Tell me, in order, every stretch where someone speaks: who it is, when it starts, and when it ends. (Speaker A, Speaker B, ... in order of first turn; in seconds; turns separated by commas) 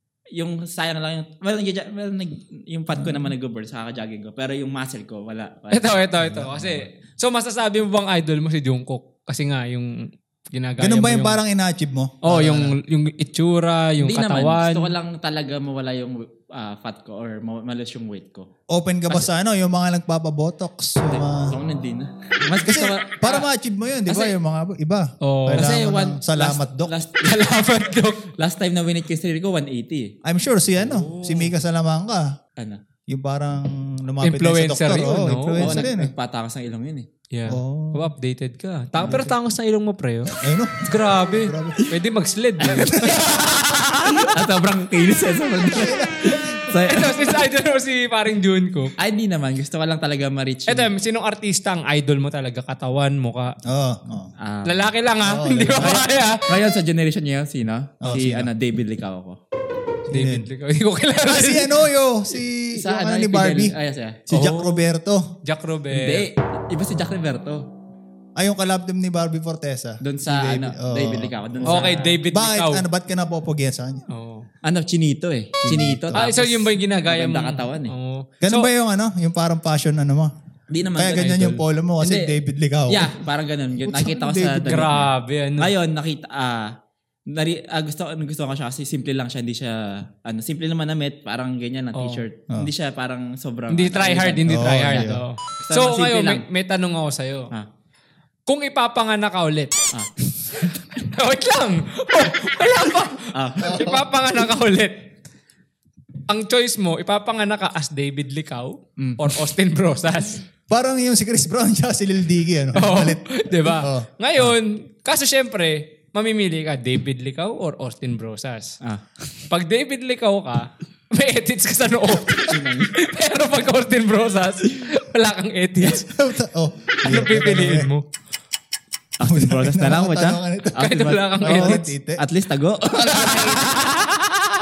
Speaker A: 0.3-6.0, Speaker B: 5.7-11.4, Speaker C: 6.2-6.9, Speaker C: 10.8-12.8, Speaker B: 12.2-14.9, Speaker A: 14.0-18.5, Speaker C: 18.7-21.6, Speaker A: 21.1-23.5, Speaker C: 22.6-26.9, Speaker A: 24.1-24.3, Speaker B: 25.2-25.7, Speaker A: 25.5-27.4, Speaker B: 27.2-28.3, Speaker A: 28.3-30.1, Speaker C: 30.2-32.3, Speaker A: 30.8-31.5, Speaker C: 33.1-36.1, Speaker B: 34.2-35.8, Speaker A: 35.6-37.1, Speaker B: 37.3-44.3, Speaker C: 37.5-38.1, Speaker C: 39.0-39.3, Speaker A: 39.0-39.3, Speaker C: 40.4-41.9, Speaker A: 42.6-43.5, Speaker C: 42.7-43.2, Speaker A: 44.2-47.4, Speaker C: 45.6-46.7, Speaker B: 46.8-48.9, Speaker A: 49.0-50.9, Speaker B: 50.7-53.5, Speaker C: 53.7-54.3, Speaker A: 54.4-54.9, Speaker B: 54.6-56.4, Speaker C: 55.2-56.0, Speaker A: 55.8-59.4, Speaker C: 58.0-58.5, Speaker C: 60.1-60.5, Speaker B: 60.1-61.8, Speaker C: 61.2-63.8, Speaker A: 62.8-64.2, Speaker C: 64.3-65.3, Speaker B: 64.3-64.8, Speaker B: 65.4-66.3, Speaker A: 65.9-67.7, Speaker C: 68.4-74.1, Speaker A: 70.0-72.2, Speaker B: 71.7-72.8, Speaker B: 74.1-74.5, Speaker A: 74.6-77.9, Speaker C: 75.6-76.3, Speaker B: 76.1-78.7, Speaker C: 78.4-80.3, Speaker A: 80.7-86.7, Speaker C: 81.0-83.2, Speaker B: 81.2-81.6, Speaker C: 83.8-85.0, Speaker B: 84.6-85.7, Speaker A: 87.3-96.4, Speaker B: 92.0-92.2, Speaker B: 93.7-97.5, Speaker C: 94.5-95.2, Speaker B: 98.5-99.7, Speaker B: 100.5-105.0, Speaker A: 103.3-104.0, Speaker C: 103.6-104.0, Speaker B: 106.3-110.4, Speaker A: 109.0-109.5, Speaker C: 110.7-114.5, Speaker B: 112.8-118.8, Speaker B: 119.5-126.1, Speaker A: 122.5-123.0, Speaker C: 125.8-127.9, Speaker B: 127.0-128.1, Speaker A: 129.2-133.9, Speaker C: 129.2-130.9, Speaker B: 130.8-131.9, Speaker C: 131.4-132.2, Speaker C: 133.0-133.7, Speaker B: 133.2-134.4